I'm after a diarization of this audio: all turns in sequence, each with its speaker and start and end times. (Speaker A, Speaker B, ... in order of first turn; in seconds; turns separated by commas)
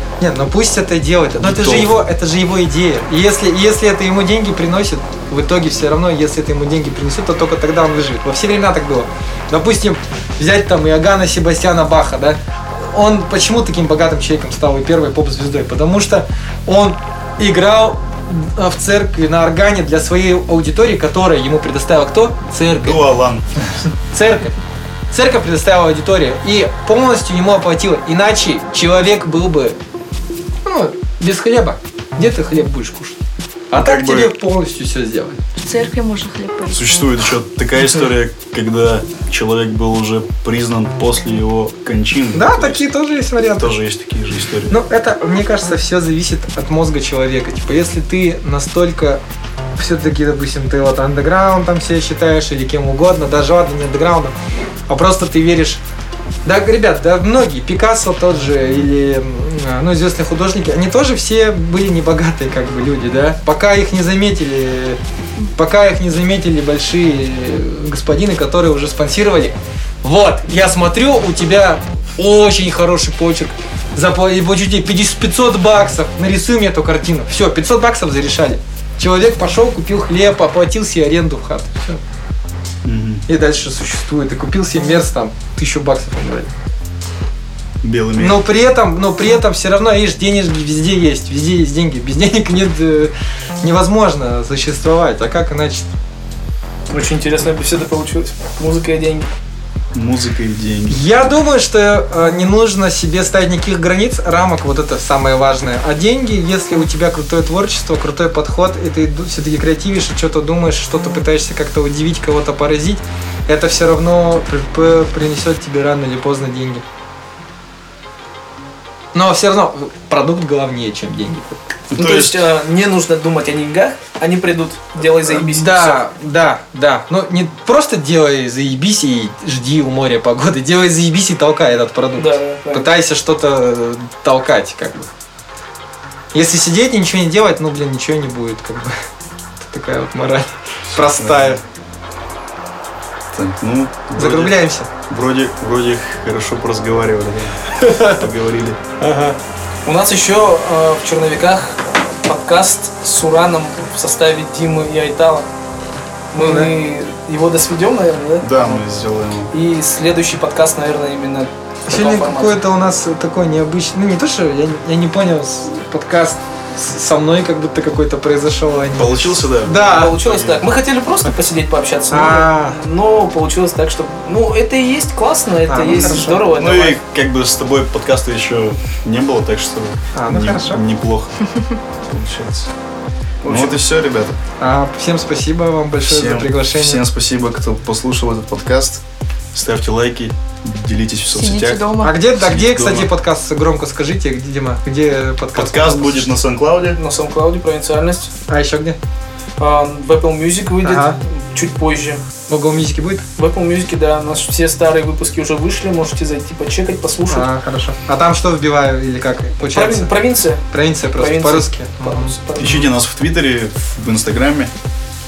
Speaker A: 0.2-23.0, Speaker B: 1.4-2.0, Speaker B: 22.7-23.7, Speaker A: 24.1-24.6, Speaker A: 25.1-29.8, Speaker A: 30.6-33.2, Speaker A: 33.7-35.4, Speaker B: 33.8-34.3, Speaker C: 35.6-37.1, Speaker B: 36.7-42.9, Speaker A: 42.3-43.7, Speaker B: 43.4-44.7, Speaker A: 44.7-49.2, Speaker A: 49.8-54.4, Speaker A: 54.9-55.8, Speaker A: 56.5-65.0, Speaker A: 65.6-82.0, Speaker B: 82.8-83.3, Speaker A: 83.3-86.5, Speaker B: 87.8-88.4, Speaker A: 88.2-95.9, Speaker D: 96.9-99.3, Speaker B: 99.9-101.0, Speaker A: 100.9-116.8, Speaker A: 119.1-121.6, Speaker B: 121.9-122.4, Speaker D: 122.0-126.0, Speaker A: 125.3-135.1, Speaker D: 132.2-132.9, Speaker A: 136.3-138.9, Speaker A: 139.6-141.6, Speaker B: 140.9-141.6, Speaker B: 143.3-148.8, Speaker A: 144.2-144.9, Speaker A: 147.8-148.2, Speaker A: 149.0-149.4, Speaker D: 149.8-155.5, Speaker D: 156.3-158.8, Speaker A: 156.4-156.7, Speaker B: 158.4-159.5, Speaker D: 159.5-162.6, Speaker A: 161.9-170.2, Speaker B: 169.0-170.6, Speaker D: 169.8-177.0, Speaker A: 172.1-172.8, Speaker A: 175.7-176.4, Speaker B: 175.9-181.5, Speaker A: 180.1-180.8, Speaker B: 182.0-182.7, Speaker D: 183.4-183.8, Speaker B: 183.4-184.4, Speaker A: 184.6-187.0, Speaker B: 186.0-189.0, Speaker B: 189.5-193.1, Speaker C: 191.3-192.2, Speaker A: 192.0-196.3, Speaker B: 195.6-197.0, Speaker D: 196.9-198.3, Speaker A: 198.5-199.0, Speaker D: 199.6-202.2, Speaker A: 200.8-201.2, Speaker A: 202.5-203.2, Speaker D: 203.4-207.5, Speaker A: 207.3-210.1, Speaker D: 209.7-210.6, Speaker A: 210.7-212.4, Speaker D: 211.1-212.9, Speaker B: 212.6-214.7